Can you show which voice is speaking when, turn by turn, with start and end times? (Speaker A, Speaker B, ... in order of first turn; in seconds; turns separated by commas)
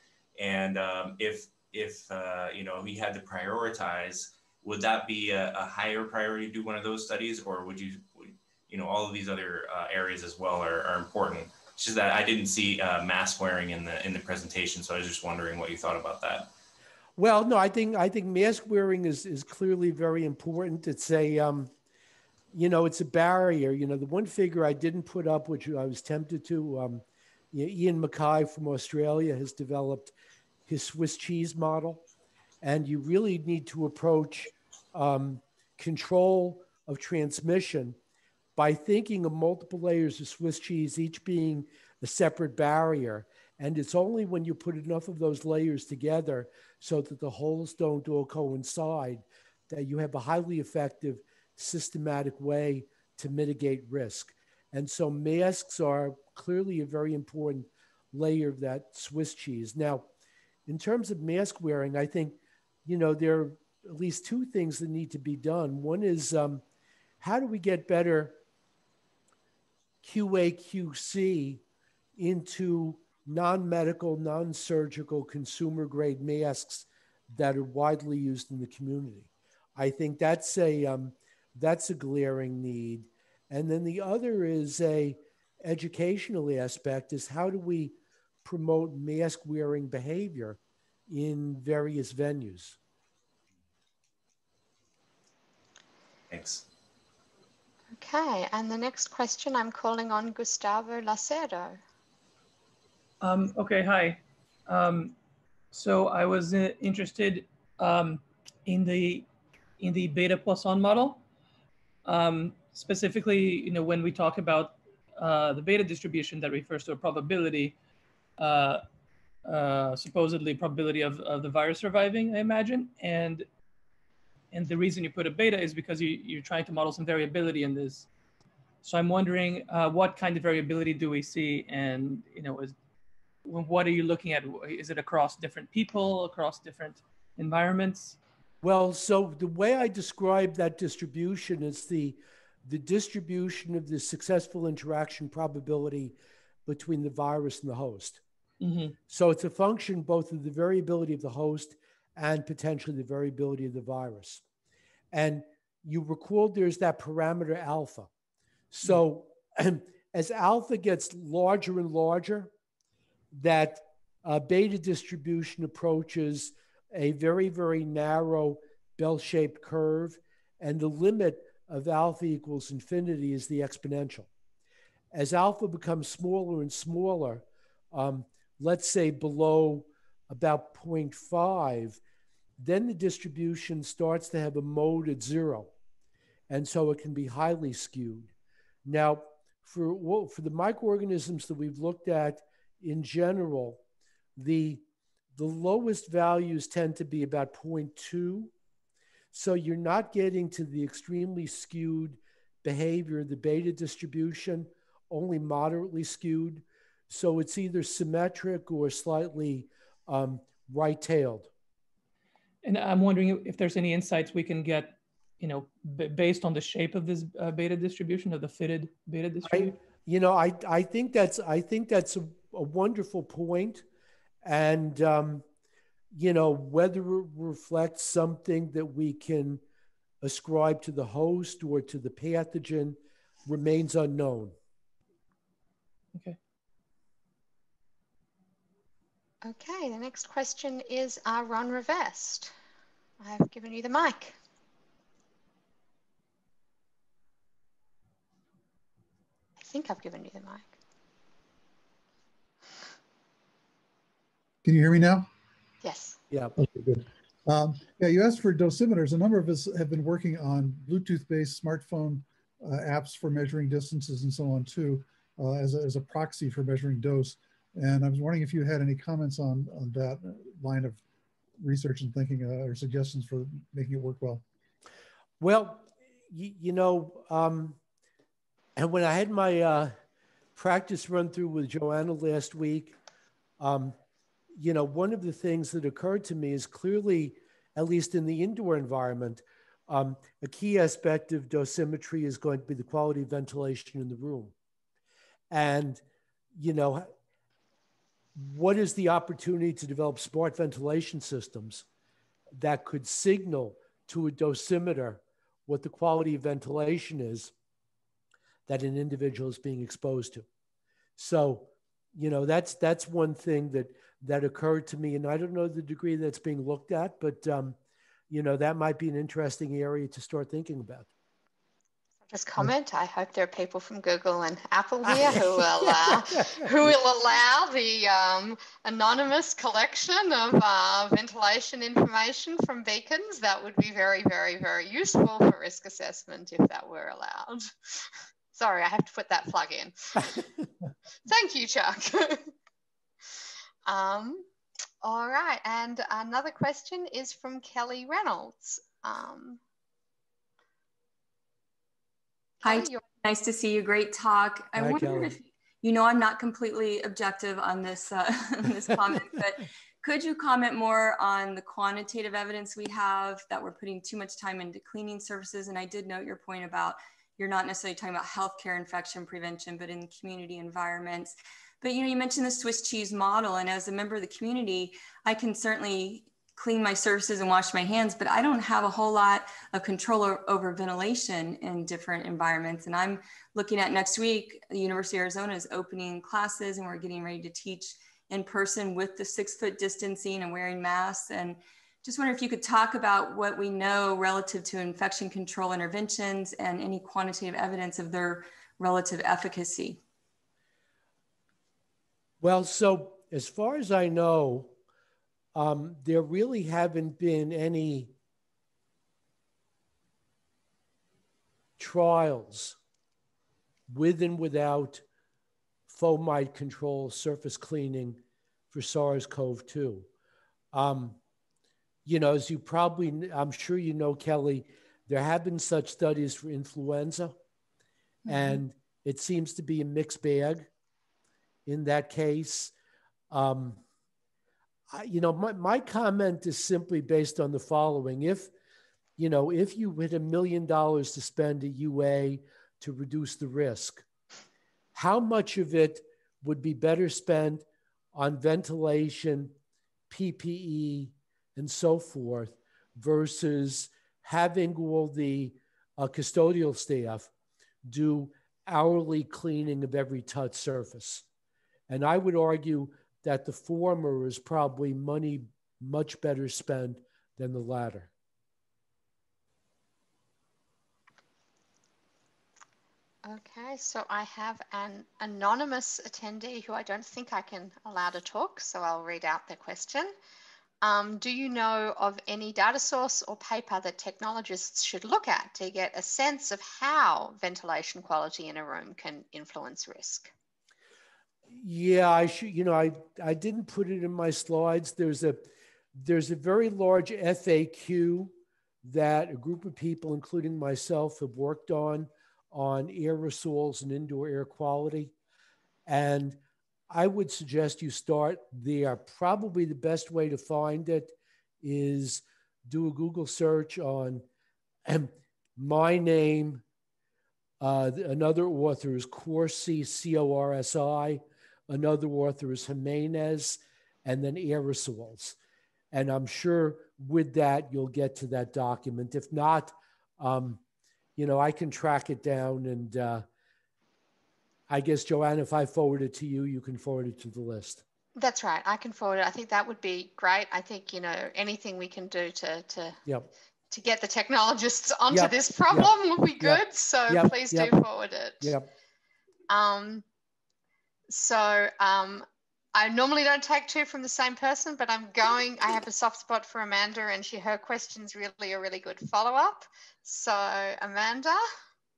Speaker A: 0.4-16.5, Speaker B: 17.2-21.7, Speaker B: 22.5-30.1, Speaker B: 30.7-32.0, Speaker B: 32.6-38.0, Speaker B: 38.6-60.1, Speaker B: 60.7-66.6, Speaker B: 67.2-68.4, Speaker B: 70.0-71.6, Speaker B: 72.2-92.8, Speaker A: 96.3-96.6, Speaker C: 98.0-101.8, Speaker D: 103.2-105.2, Speaker D: 105.7-109.3, Speaker D: 109.8-111.2, Speaker D: 112.0-117.8, Speaker D: 118.4-118.8, Speaker D: 119.5-123.5, Speaker D: 124.5-128.1, Speaker D: 128.8-132.8, Speaker D: 133.4-138.2, Speaker B: 138.6-148.2, Speaker D: 148.6-148.9, Speaker B: 149.1-154.4, Speaker B: 155.1-158.1, Speaker B: 158.7-162.5, Speaker B: 163.3-174.3, Speaker B: 175.1-182.0, Speaker B: 182.6-185.7, Speaker B: 186.5-188.3, Speaker B: 188.8-193.8, Speaker B: 194.4-194.8, Speaker B: 195.4-198.5, Speaker B: 199.3-211.5, Speaker D: 212.6-219.8, Speaker B: 219.4-223.8, Speaker B: 224.4-225.4, Speaker B: 226.1-229.6, Speaker B: 230.2-234.6, Speaker C: 239.4-242.5, Speaker C: 243.2-244.4, Speaker C: 249.6-250.7, Speaker E: 254.6-255.3, Speaker C: 255.8-256.2, Speaker E: 256.6-271.0, Speaker E: 271.6-274.4, Speaker B: 275.4-277.8, Speaker B: 278.8-279.9, Speaker B: 280.6-283.0, Speaker B: 283.6-284.0, Speaker B: 284.6-294.5, Speaker B: 295.5-296.0, Speaker B: 296.6-297.1, Speaker B: 298.4-301.9, Speaker B: 302.5-307.5, Speaker B: 308.7-310.5, Speaker B: 311.2-317.8, Speaker B: 318.3-321.1, Speaker C: 322.3-340.5, Speaker B: 325.9-326.7, Speaker C: 341.3-342.5, Speaker C: 343.9-344.5, Speaker C: 345.0-349.6, Speaker C: 352.6-353.0, Speaker F: 352.6-400.0, Speaker B: 354.8-355.4, Speaker B: 402.4-404.7, Speaker B: 405.6-408.1, Speaker B: 411.8-412.8, Speaker B: 413.9-415.0, Speaker B: 415.9-418.2, Speaker B: 418.7-420.1, Speaker B: 420.7-421.2, Speaker B: 422.1-427.4, Speaker B: 428.3-430.7, Speaker B: 431.7-432.7, Speaker B: 433.3-433.8, Speaker B: 434.9-438.5, Speaker B: 439.2-444.1, Speaker B: 444.9-449.6, Speaker B: 450.1-457.3, Speaker B: 457.9-461.2, Speaker B: 461.9-468.1, Speaker C: 473.2-480.1, Speaker C: 480.8-490.3, Speaker B: 491.5-495.4, Speaker B: 495.9-505.1, Speaker B: 505.9-514.2, Speaker B: 514.9-516.6, Speaker B: 517.6-525.4, Speaker B: 525.9-530.6, Speaker B: 531.2-533.3, Speaker B: 534.7-537.8, Speaker C: 538.2-543.0, Speaker C: 543.7-548.5, Speaker B: 545.1-547.7, Speaker B: 548.4-548.7, Speaker C: 549.5-550.0, Speaker C: 551.1-561.4